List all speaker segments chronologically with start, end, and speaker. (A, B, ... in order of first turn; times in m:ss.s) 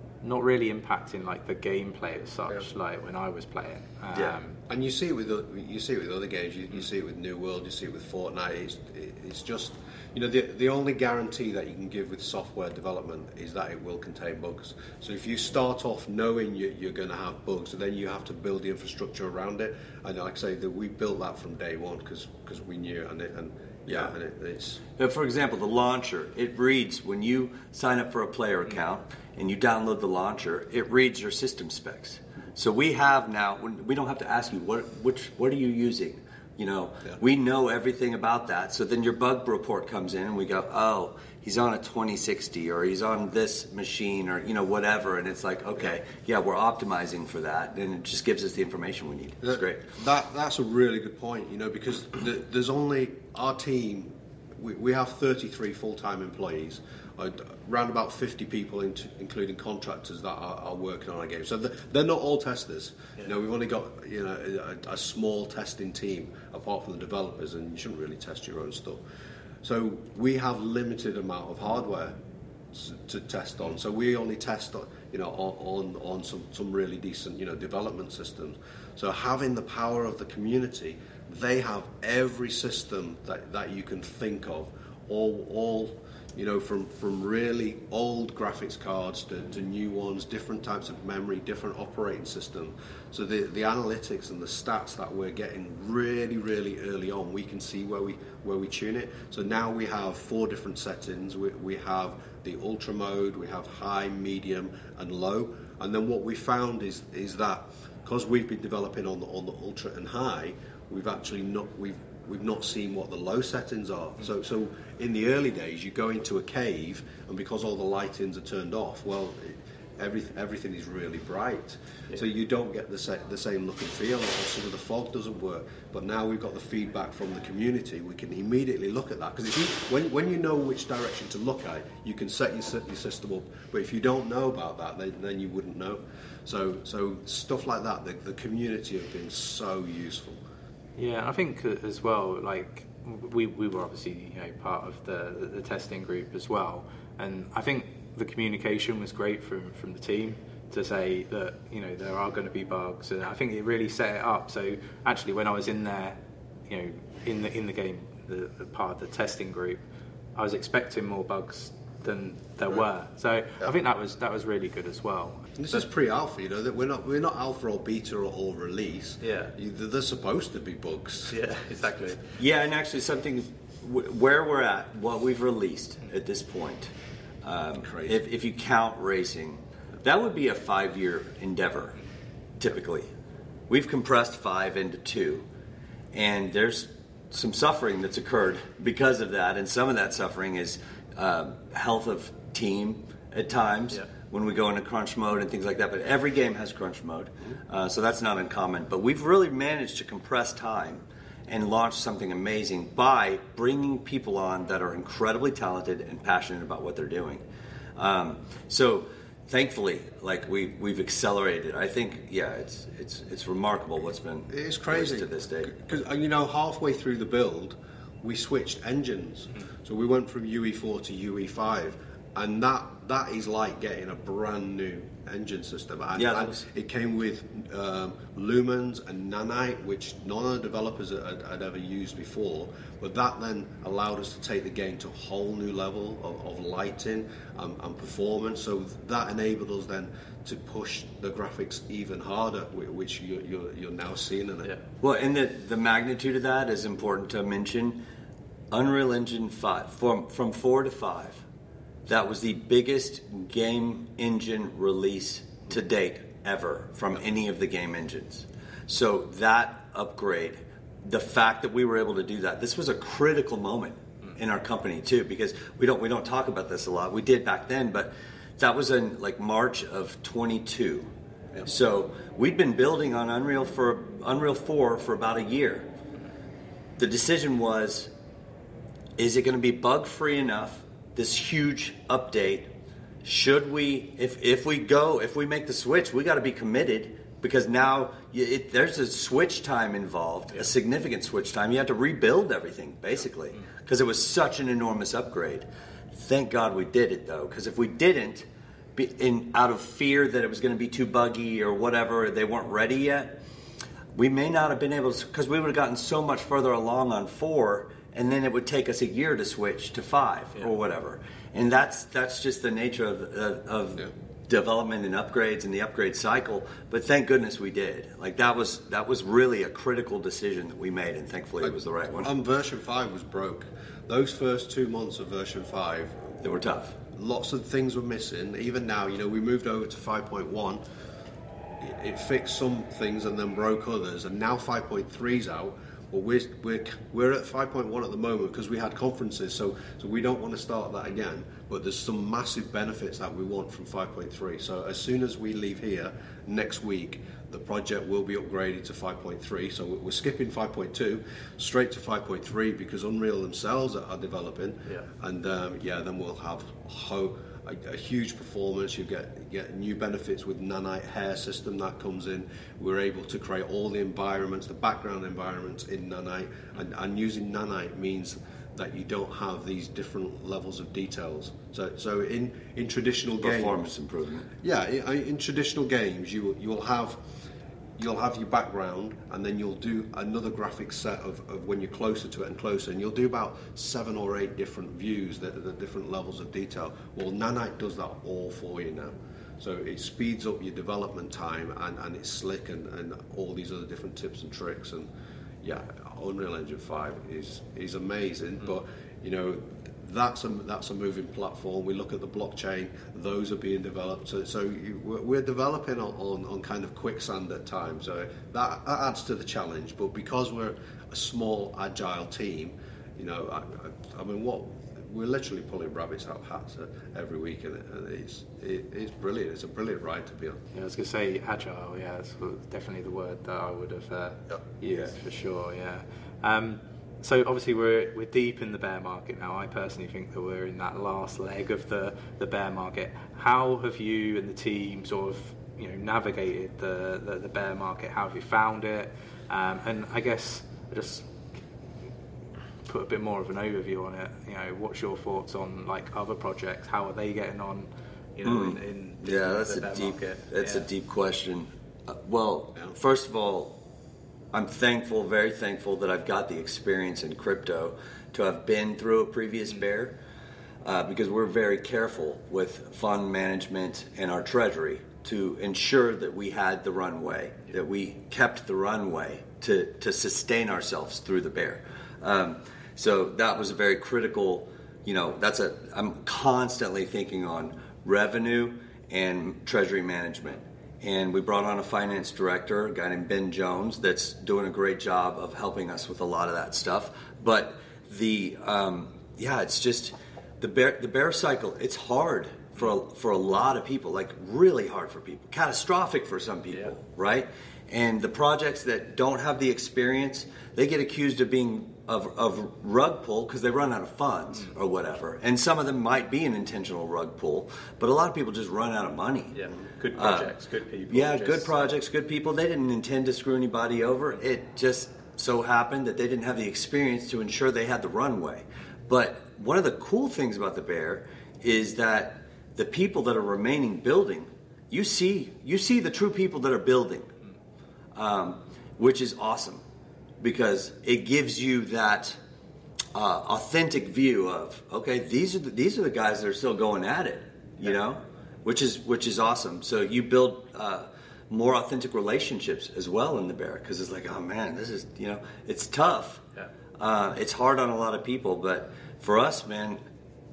0:00.2-0:04.6 A
0:04.7-0:24.8 B
0:25.0-0:49.8 C
0:49.4-1:09.0 B
1:09.6-1:12.2 B
1:12.7-2:20.4 B
2:21.0-2:39.8 A
2:40.4-2:45.8 A
2:45.6-2:51.3 B
2:49.2-2:49.5 A
2:51.3-2:52.2 A
2:52.4-2:56.9 C
2:57.4-3:02.0 C
2:57.8-2:58.2 B
3:02.6-3:03.1 C
3:03.7-3:05.4 C
3:06.1-3:27.4 C
3:28.0-3:35.8 C
3:34.5-4:04.7 B
3:46.2-3:46.6 C
4:05.0-4:08.0 C
4:08.7-4:11.4 C
4:12.1-4:31.1 C
4:31.6-4:35.9 C
4:37.0-4:38.1 C
4:39.2-4:42.7 C
4:43.2-5:03.4 C
5:04.1-5:22.3 C
5:22.2-5:26.4 B
5:26.4-5:27.0 C
5:27.1-5:30.8 B
5:31.8-6:13.8 B
6:13.4-6:14.5 C
6:14.6-6:17.2 B
6:18.0-6:35.1 B
6:35.6-7:00.6 B
7:00.7-7:21.4 A
7:22.8-7:30.8 A
7:28.4-7:33.8 C
7:34.5-7:40.2 C
7:40.8-8:29.6 C
8:29.5-8:31.8 A
8:30.1-8:30.6 C
8:31.1-8:47.3 C
8:48.1-8:49.8 C
8:50.4-8:52.4 C
8:53.1-9:06.4 C
9:07.0-9:10.0 C